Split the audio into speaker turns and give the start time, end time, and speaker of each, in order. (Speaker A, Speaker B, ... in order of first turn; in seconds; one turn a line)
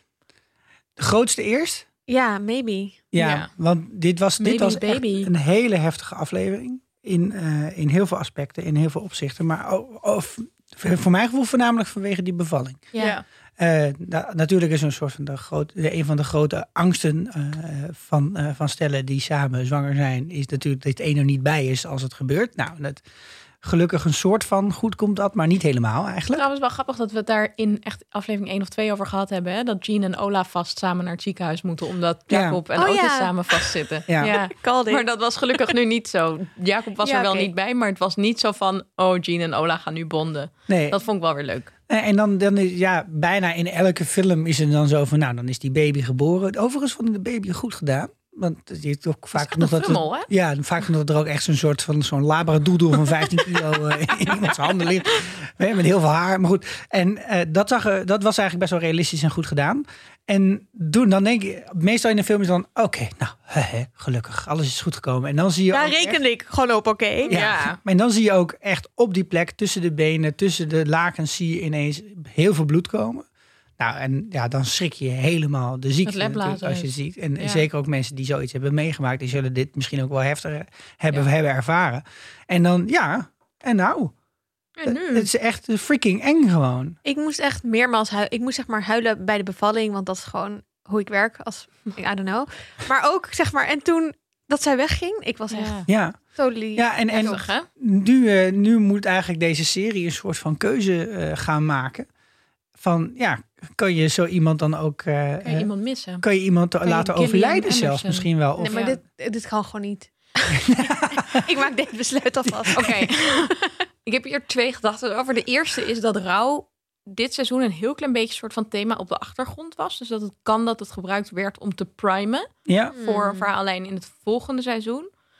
Speaker A: 1.0-1.8
Speaker B: 2.1-3.0
Speaker A: 3.1-12.9
Speaker C: 3.2-3.5
Speaker C: 4.4-5.3
Speaker C: 12.9-13.2
Speaker A: 13.6-23.0
Speaker A: 23.6-26.4
Speaker C: 26.3-41.7
Speaker A: 32.3-32.6
Speaker B: 32.7-35.0
Speaker A: 34.1-34.3
Speaker B: 37.0-37.5
Speaker A: 40.7-41.0
Speaker A: 41.9-66.2
Speaker C: 49.3-50.3
Speaker B: 65.7-67.4
Speaker C: 67.2-67.8
Speaker A: 67.3-73.3
Speaker A: 73.8-84.1
Speaker C: 76.0-77.6
Speaker C: 84.8-85.3
Speaker A: 84.8-87.0
Speaker B: 87.0-97.4
Speaker C: 95.5-95.9
Speaker A: 95.9-102.1
Speaker C: 97.1-97.7
Speaker A: 102.8-105.7
Speaker C: 105.4-106.2
Speaker A: 106.2-108.8
Speaker C: 106.8-109.0
Speaker B: 108.6-113.2
Speaker A: 110.5-111.4
Speaker C: 112.7-125.1
Speaker A: 122.7-122.9
Speaker B: 122.9-123.5